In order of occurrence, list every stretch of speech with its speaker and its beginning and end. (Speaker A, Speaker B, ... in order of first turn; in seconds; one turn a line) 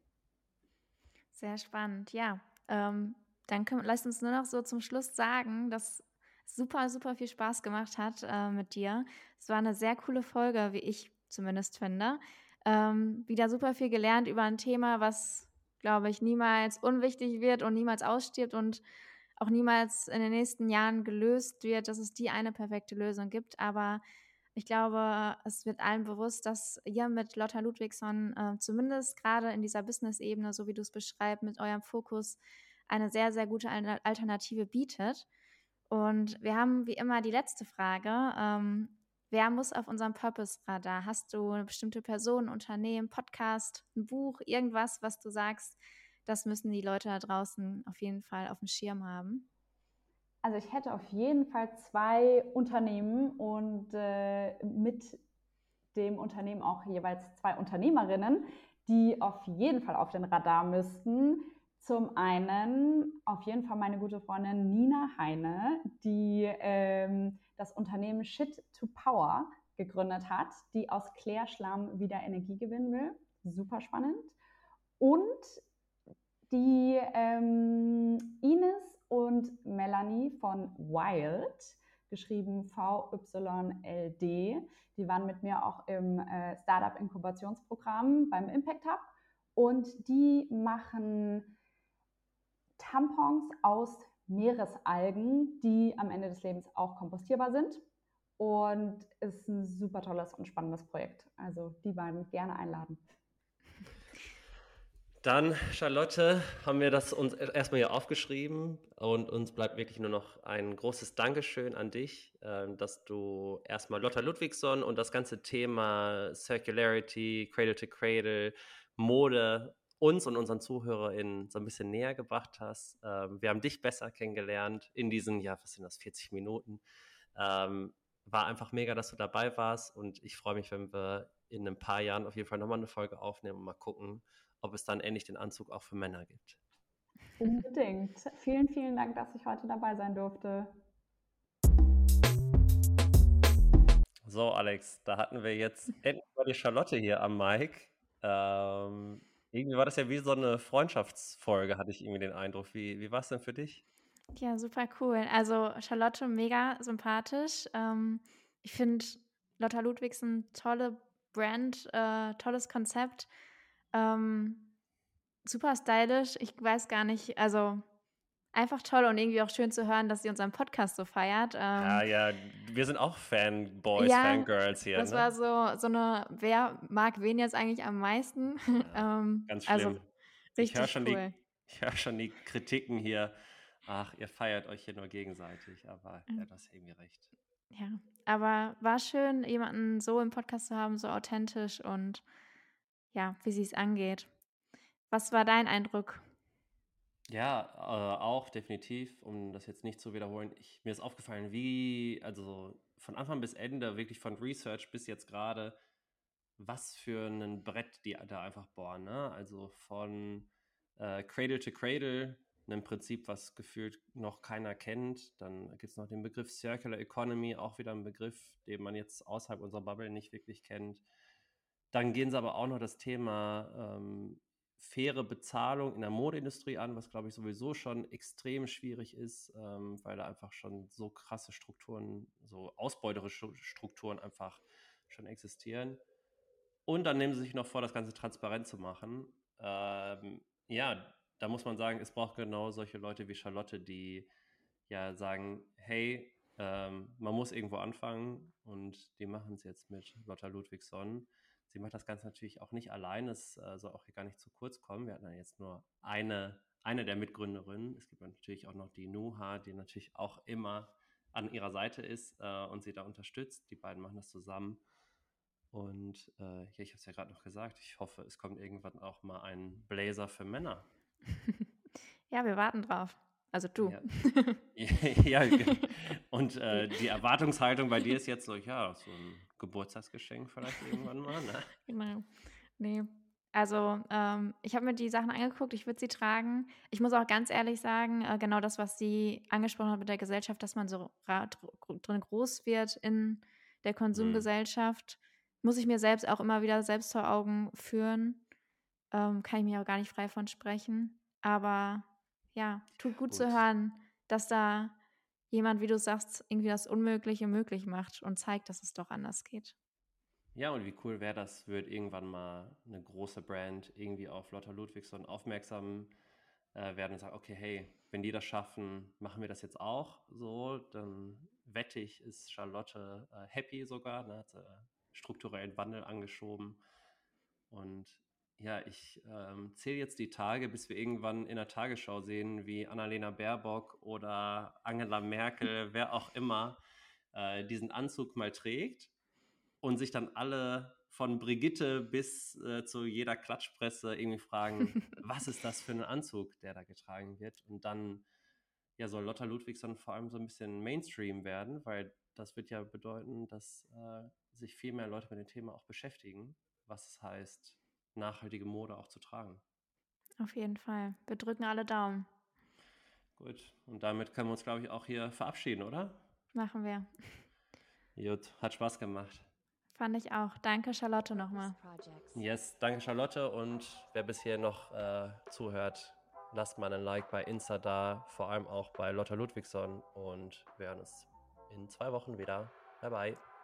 Speaker A: 1.3-18.8
Speaker A: 19.4-24.0
Speaker A: 24.6-35.3
Speaker A: 35.9-49.5
Speaker B: 50.4-55.2
Speaker B: 55.9-74.3
Speaker B: 75.0-75.6
Speaker B: 76.5-91.5
Speaker B: 92.8-97.8
Speaker B: 98.4-103.0
Speaker C: 105.2-126.8
Speaker C: 127.3-136.6
Speaker B: 137.4-140.7
Speaker C: 144.2-153.8
Speaker A: 154.3-163.3
Speaker A: 163.9-164.7
Speaker A: 165.4-167.8
Speaker A: 168.5-172.0
Speaker C: 171.8-175.3
Speaker A: 174.0-180.0
Speaker C: 178.7-180.1
Speaker A: 180.6-181.4
Speaker C: 180.6-183.3
Speaker C: 183.8-187.3
Speaker A: 187.7-192.2
Speaker A: 193.1-194.3
Speaker A: 195.1-196.3
Speaker C: 197.3-205.8
Speaker C: 206.6-221.0
Speaker C: 221.9-236.0
Speaker C: 236.9-244.3
Speaker C: 244.9-264.8
Speaker C: 265.7-270.9
Speaker A: 272.3-274.6
Speaker C: 273.8-274.1
Speaker C: 274.7-281.8
Speaker A: 281.9-298.4
Speaker C: 294.1-294.5
Speaker A: 299.1-304.9
Speaker C: 303.3-303.6
Speaker A: 305.5-309.8
Speaker C: 310.6-316.1
Speaker C: 316.7-326.8
Speaker C: 327.7-336.8
Speaker C: 337.3-339.1
Speaker C: 339.8-348.2
Speaker C: 349.0-359.6
Speaker A: 360.4-362.3
Speaker C: 363.4-366.2
Speaker A: 366.5-367.5
Speaker C: 368.2-369.5
Speaker A: 369.9-372.0
Speaker C: 372.3-383.4